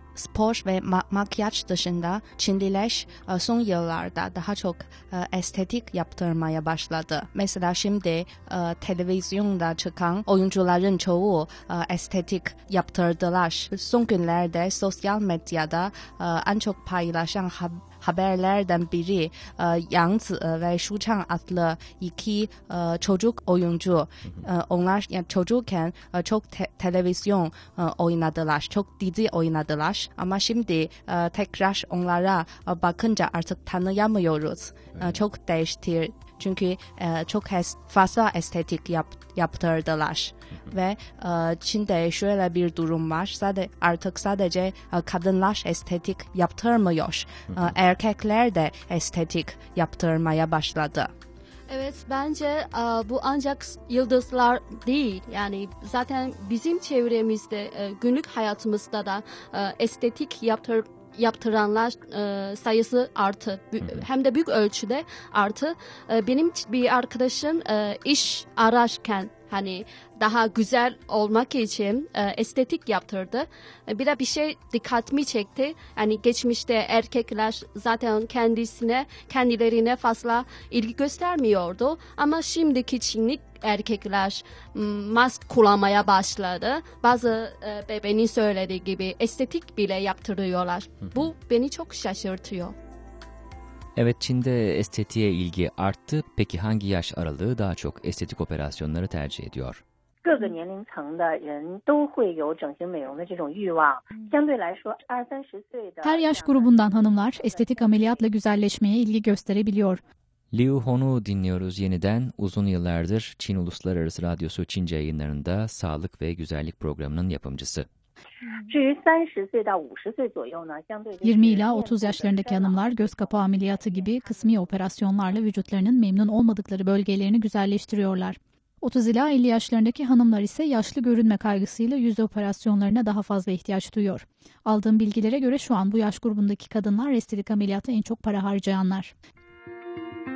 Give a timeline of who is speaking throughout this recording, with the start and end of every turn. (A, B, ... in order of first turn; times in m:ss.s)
0:00.1-0:51.1 A
0:47.5-0:47.8 B
0:51.7-1:32.8 C
1:34.0-1:39.8 B
1:40.2-1:48.5 D
1:46.0-1:50.0 E
1:50.5-1:57.9 B
1:58.5-2:05.5 D
2:01.2-2:19.1 E